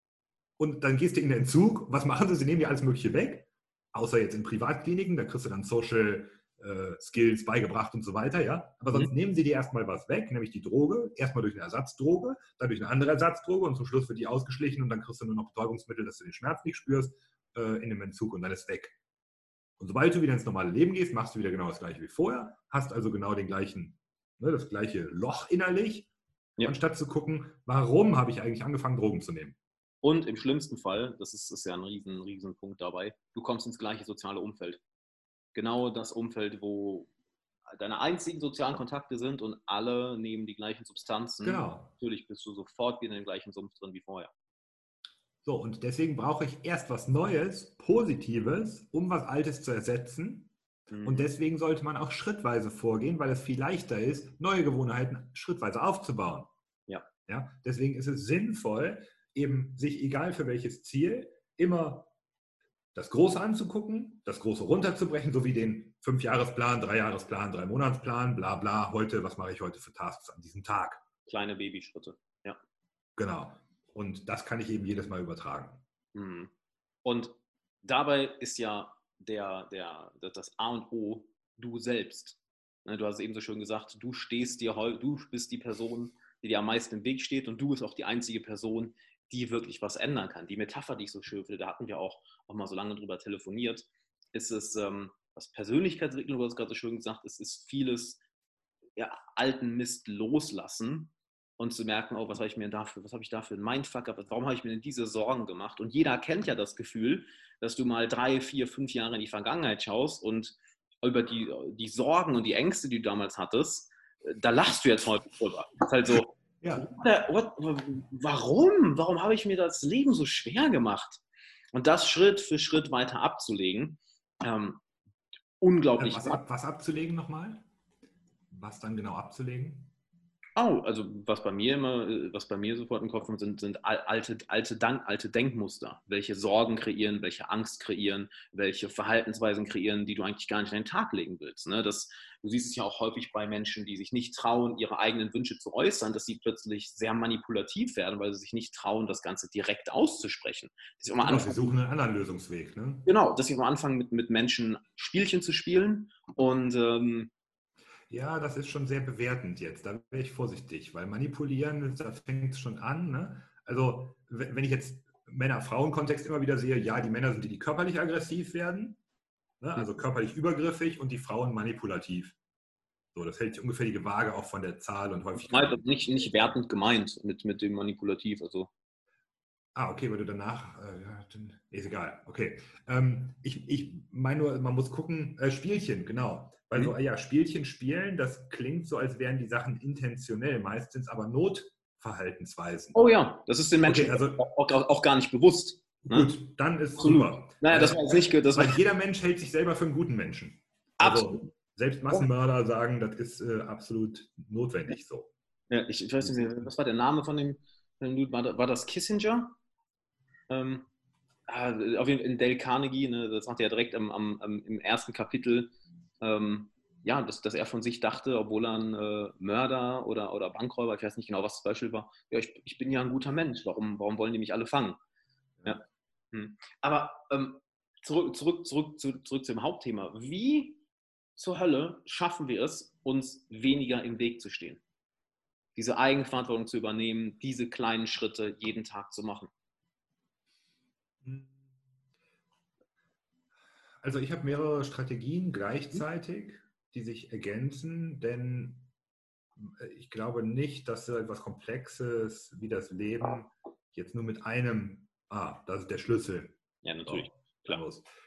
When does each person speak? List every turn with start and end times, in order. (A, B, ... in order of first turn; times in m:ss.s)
0:00.6-0:19.0 A
0:19.8-0:26.1 A
0:26.6-0:29.6 A
0:30.0-0:34.8 B
0:35.5-0:37.1 B
0:37.7-0:44.3 B
0:41.4-0:41.9 A
0:45.4-0:56.5 A
0:50.9-0:51.3 B
0:57.3-1:02.1 A
1:02.9-1:11.0 A
1:11.3-1:12.6 B
1:13.2-1:15.8 A
1:16.1-1:16.5 B
1:17.0-1:38.2 B
1:39.0-2:01.2 B
1:56.6-1:56.9 A
2:01.7-2:04.8 B
2:05.6-2:06.4 B
2:06.0-2:07.6 A
2:08.5-2:09.9 A
2:10.6-2:31.7 B
2:31.2-2:33.1 A
2:33.0-2:37.3 B
2:38.1-2:49.0 A
2:49.6-2:52.4 A
2:53.1-2:55.8 A
2:55.4-2:58.7 B
2:59.7-3:13.0 A
3:12.9-3:16.3 B
3:13.8-3:14.4 A
3:16.0-3:25.3 A
3:17.0-3:18.8 B
3:21.0-3:21.4 B
3:25.7-3:29.6 B
3:26.2-3:26.7 A
3:30.5-3:30.9 B
3:31.5-3:45.0 B
3:45.6-3:50.8 B
3:51.4-3:54.8 B
3:55.8-3:59.5 B
4:01.2-4:01.6 A
4:04.0-4:08.9 A
4:09.6-4:16.5 A
4:16.8-4:17.8 B
4:17.0-4:18.0 A